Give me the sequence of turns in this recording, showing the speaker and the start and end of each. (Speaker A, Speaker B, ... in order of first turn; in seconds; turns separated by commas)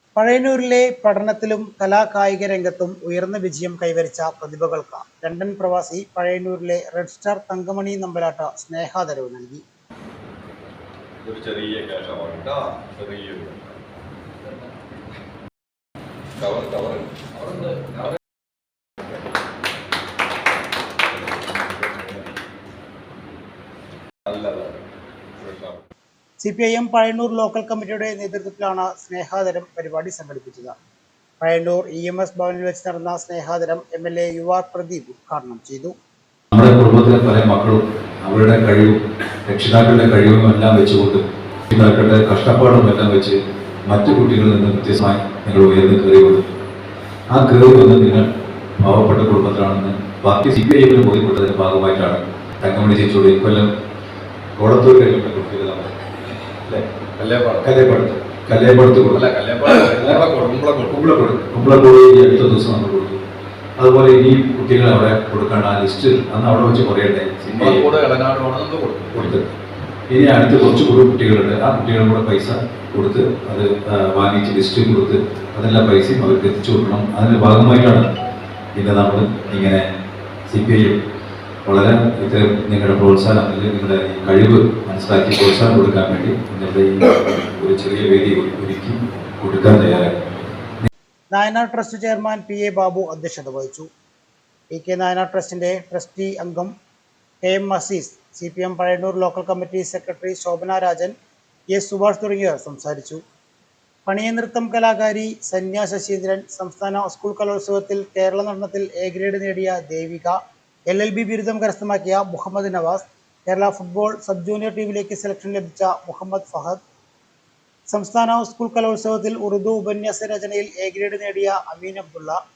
Speaker A: 0.1-9.6, Speaker B: 11.2-13.8, Speaker B: 16.4-18.1, Speaker B: 21.5-22.3, Speaker B: 24.2-24.8, Speaker B: 25.4-25.8, Speaker A: 26.4-30.7, Speaker A: 31.4-35.9, Speaker C: 36.5-46.4, Speaker C: 47.3-48.3, Speaker C: 48.8-53.7, Speaker C: 54.6-55.9, Speaker B: 57.2-57.8, Speaker C: 57.6-59.2, Speaker B: 59.1-61.0, Speaker C: 59.8-60.4, Speaker C: 60.9-63.2, Speaker C: 63.8-67.9, Speaker B: 67.5-69.3, Speaker C: 69.1-69.4, Speaker C: 70.1-78.1, Speaker C: 78.7-79.8, Speaker C: 80.5-81.0, Speaker C: 81.7-90.3, Speaker A: 91.3-93.9, Speaker A: 94.7-96.7, Speaker A: 97.4-101.1, Speaker A: 101.7-103.2, Speaker A: 104.0-110.4, Speaker A: 110.9-116.8, Speaker A: 117.9-122.4